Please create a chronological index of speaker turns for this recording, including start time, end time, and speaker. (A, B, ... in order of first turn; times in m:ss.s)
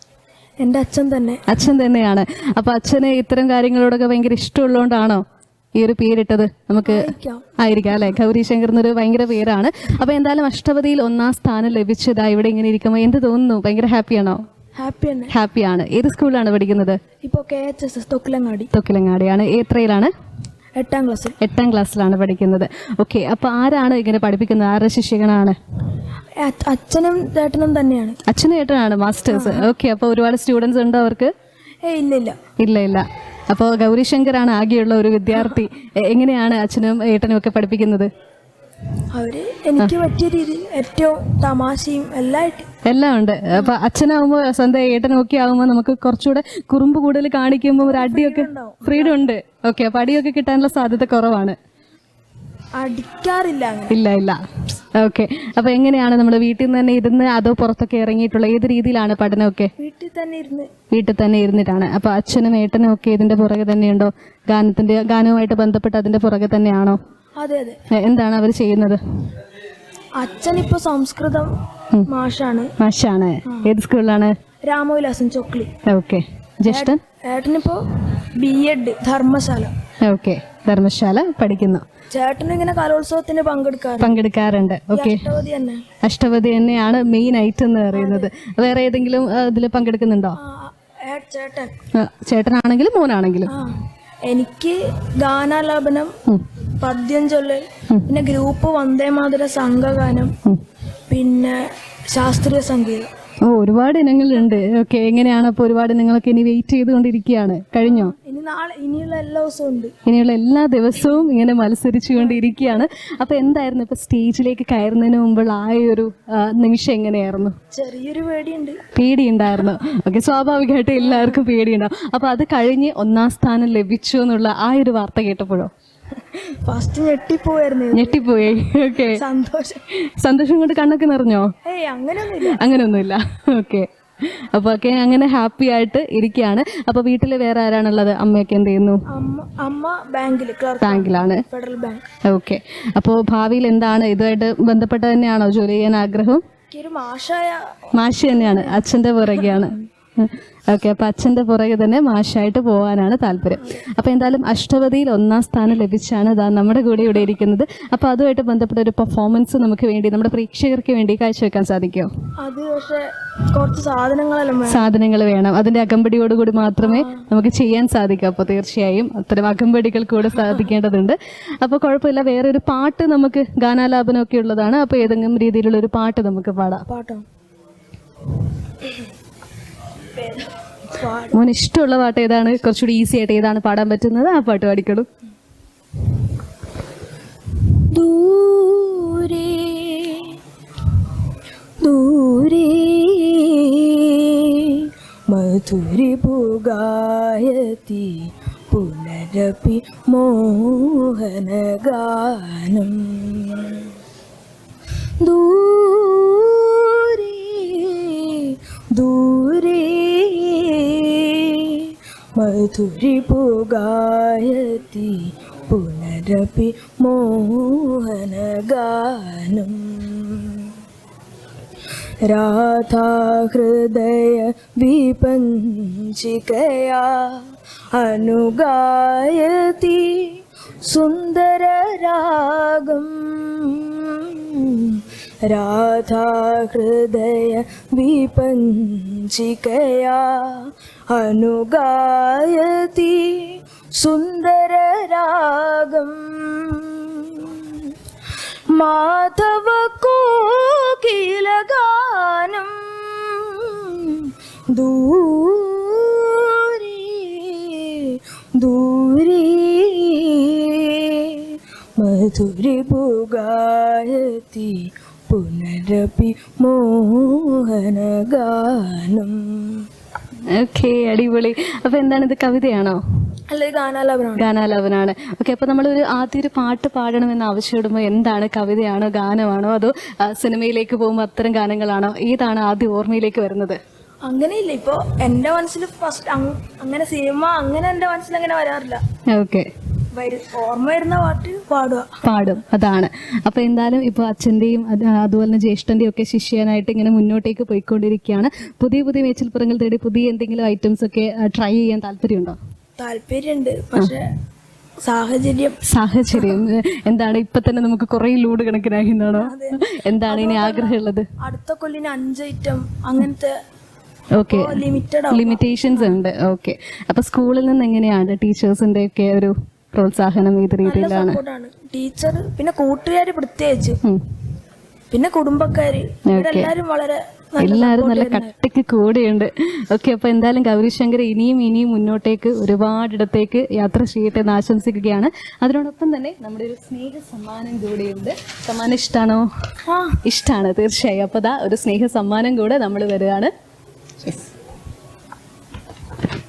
0:00.6-0:01.4 A
0:01.5-0:05.2 B
0:05.8-0:14.4 B
0:06.8-0:07.5 A
0:14.8-0:15.3 A
0:15.3-0:17.0 B
0:17.2-0:18.7 A
0:18.7-0:20.1 B
0:20.8-0:21.4 A
0:21.4-0:25.6 B
0:26.4-0:28.2 A
0:28.3-0:31.3 B
0:29.3-0:29.7 A
0:31.8-0:32.4 A
0:32.6-0:38.1 B
0:39.1-0:42.7 A
0:42.8-0:51.6 B
0:47.8-0:49.2 A
0:52.8-0:54.0 A
0:53.9-0:59.7 B
0:59.8-1:00.7 A
1:00.9-1:07.0 B
1:07.4-1:07.8 A
1:07.9-1:09.0 B
1:10.2-1:11.5 A
1:12.0-1:12.7 A
1:12.8-1:14.3 B
1:14.7-1:15.7 A
1:15.8-1:17.0 B
1:16.7-1:17.8 A
1:18.4-1:19.7 A
1:20.0-1:21.8 B
1:22.1-1:24.2 A
1:24.0-1:25.2 B
1:24.9-1:25.8 A
1:26.0-1:30.4 B
1:27.9-1:28.3 A
1:30.4-1:31.7 A
1:31.9-1:33.5 B
1:33.5-1:33.7 A
1:34.2-1:36.1 A
1:36.8-1:40.3 A
1:41.1-1:41.6 A
1:42.1-1:43.1 A
1:43.4-1:48.1 B
1:47.8-1:49.9 A
1:50.0-1:57.6 B
1:57.7-1:58.8 A
1:58.9-2:05.7 B
2:01.0-2:01.4 A
2:06.3-2:08.3 A
2:07.9-2:09.2 B
2:09.1-2:09.8 A
2:10.2-2:11.5 B
2:11.6-2:12.6 A
2:12.3-2:13.9 B
2:14.5-2:19.0 B
2:19.1-2:22.0 A
2:20.8-2:21.4 B
2:22.3-2:26.4 B
2:26.7-2:29.5 A
2:28.0-2:42.1 B
2:42.4-2:44.8 A
2:44.7-2:56.8 B
2:46.8-2:47.3 A
2:50.3-2:50.7 A
2:56.9-2:57.2 A
3:00.1-3:01.4 A
3:01.3-3:05.1 B
3:07.9-3:10.3 A
3:11.8-3:23.9 A
3:25.2-3:40.7 A
3:42.2-4:07.8 A
4:08.7-4:29.8 A
4:30.5-4:33.0 B
4:33.5-4:34.5 A
4:34.4-4:43.8 B
4:44.2-4:49.0 A
4:49.3-4:49.7 B
4:50.1-4:52.1 A
4:52.2-5:02.6 B
5:03.0-5:04.3 A
5:05.0-5:05.8 A
5:05.9-5:11.3 B
5:06.3-5:06.6 A
5:09.3-5:13.5 A
5:14.4-5:21.4 B
5:14.4-5:16.2 A
5:20.8-5:24.0 A
5:25.1-5:28.5 A
5:26.3-5:26.7 B
5:27.6-5:39.5 B
5:39.9-5:40.2 A
5:40.2-5:43.5 B